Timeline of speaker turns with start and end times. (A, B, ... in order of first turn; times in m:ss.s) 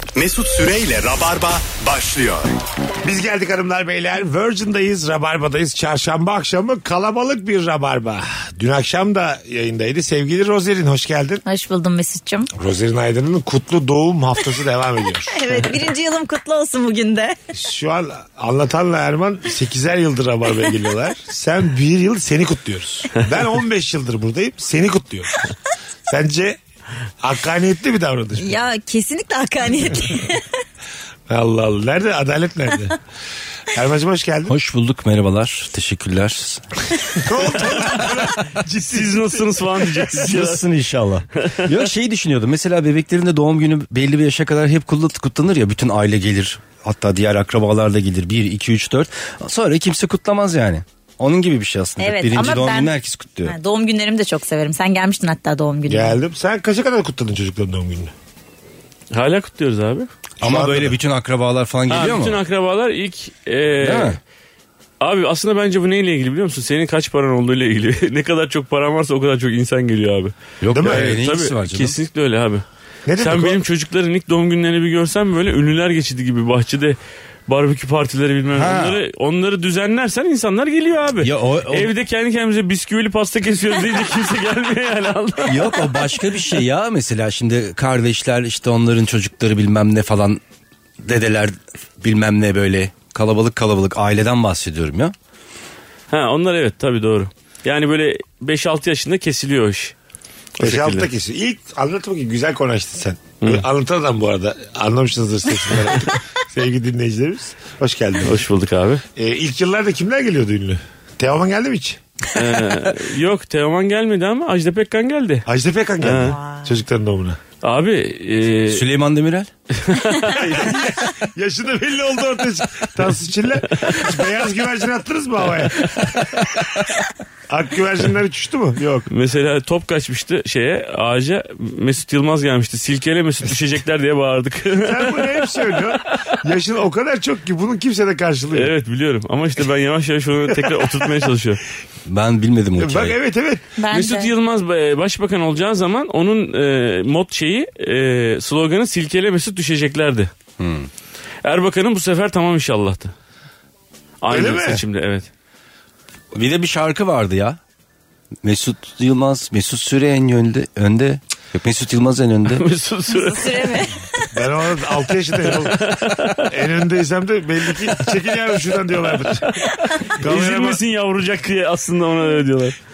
0:00.2-0:02.5 A
0:03.0-0:11.4 B
0:11.4-0:12.5 C
0:12.6-0:15.7 B
0:15.3-0:17.4 C
0:17.6-0:25.5 B
0:26.1-0:26.6 B
0:27.2-0:28.6 B
0:28.4-0:30.5 C
0:31.3-0:33.0 B
0:33.7-0:34.5 B
0:34.5-0:36.7 D
0:37.2-0:40.1 B
0:38.8-0:40.6 E
0:40.1-0:53.6 D
0:41.4-0:41.8 E
0:52.0-0:56.2 C
0:55.9-0:58.1 B
0:59.1-1:00.1 E
1:00.4-1:01.0 B
1:00.4-1:02.4 D
1:01.9-1:04.2 E
1:03.8-1:04.2 D
1:05.0-1:12.6 E
1:10.6-1:12.0 D
1:10.7-1:11.0 B
1:13.0-1:13.6 B
1:13.2-1:25.9 E
1:18.5-1:19.0 D
1:21.2-1:21.9 D
1:25.4-1:30.4 D
1:31.0-1:35.1 D
1:36.1-1:39.9 E
1:40.6-1:48.4 B
1:40.6-1:41.1 E
1:48.2-1:49.0 E
1:49.2-1:52.0 B
1:52.3-1:55.5 E
1:55.5-1:57.4 B
1:56.0-1:56.4 E
1:57.6-1:58.8 E
1:58.7-1:59.5 D
1:59.8-2:00.9 E
2:00.3-2:06.6 B
2:07.5-2:09.1 B
2:09.1-2:15.9 E
2:14.8-2:18.7 B
2:18.5-2:21.6 E
2:20.7-2:21.0 B
2:22.0-2:23.2 D
2:22.8-2:23.6 B
2:23.8-2:24.3 C
2:23.9-2:30.3 E
2:30.6-2:30.9 D
2:31.4-2:33.1 E
2:34.2-2:35.3 E
2:34.3-2:34.8 B
2:36.3-2:37.6 D
2:38.4-2:42.6 D
2:42.5-2:43.8 E
2:43.1-2:44.2 C
2:44.3-2:50.8 B
2:45.5-2:46.4 E
2:49.4-2:52.8 E